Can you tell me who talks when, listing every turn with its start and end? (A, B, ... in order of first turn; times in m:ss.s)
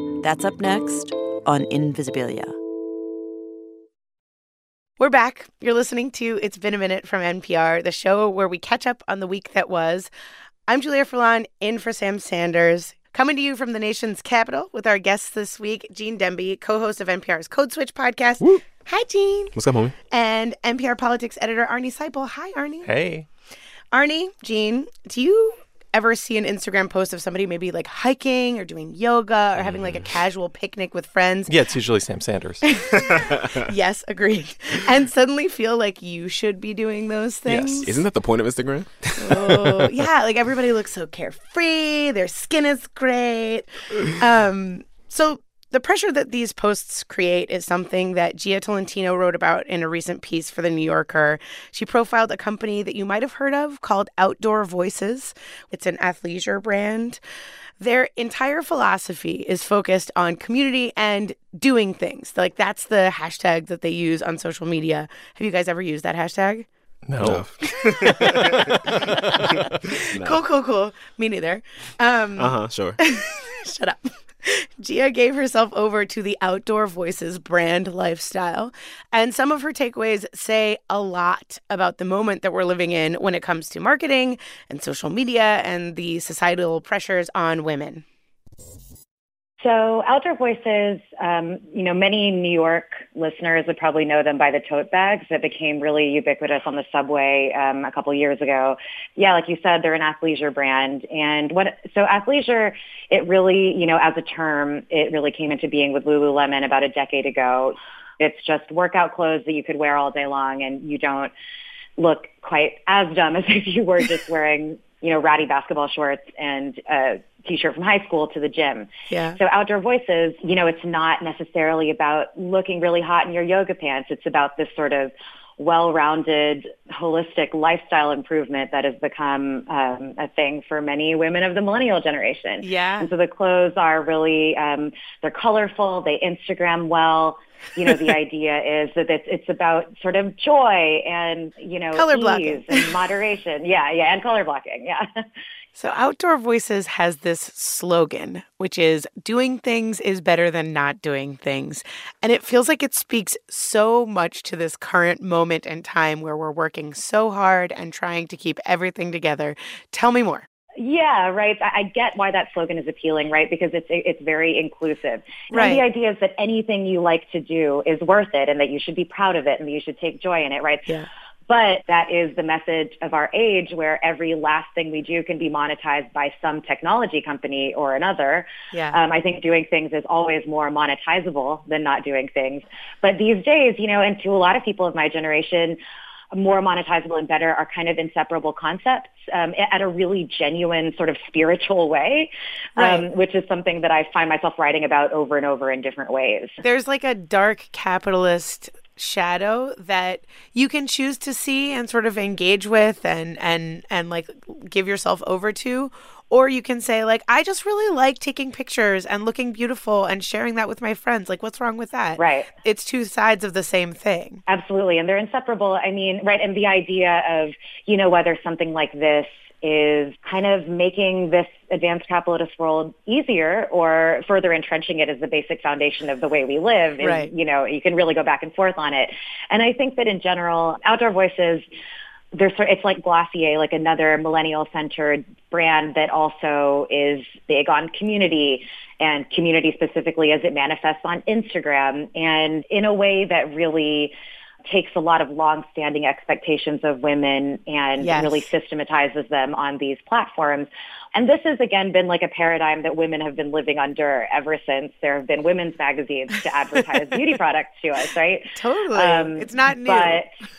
0:00.2-0:02.6 A
0:05.0-0:10.1 B
0:10.7-0:19.6 B
0:19.6-0:20.0 C
0:20.1-0:22.9 B
0:22.8-0:23.3 D
0:23.9-0:31.5 B
0:29.6-0:30.1 C
0:31.5-0:32.6 D
0:32.7-0:37.9 B
0:33.0-0:33.7 C
0:37.5-0:37.9 D
0:37.8-0:40.0 C
0:39.2-0:57.2 B
0:57.8-1:06.7 B
1:07.1-1:07.5 D
1:07.2-1:10.4 C
1:07.8-1:28.0 B
1:08.1-1:08.6 D
1:12.4-1:13.0 C
1:29.6-1:51.3 E
1:52.0-2:25.1 E
1:59.1-1:59.4 B
2:12.6-2:13.1 B
2:21.9-2:23.0 B
2:25.8-2:40.5 B
2:40.8-2:50.9 E
2:45.5-2:45.8 B
2:51.5-3:05.8 E
2:58.7-2:59.0 B
3:06.3-3:16.6 E
3:12.8-3:13.1 B
3:16.6-3:34.4 B
3:32.2-3:32.5 E
3:34.5-3:51.7 E
3:47.0-3:47.3 B
3:52.3-4:04.1 E
4:04.7-4:20.3 E
4:08.0-4:08.5 B
4:18.6-4:20.2 B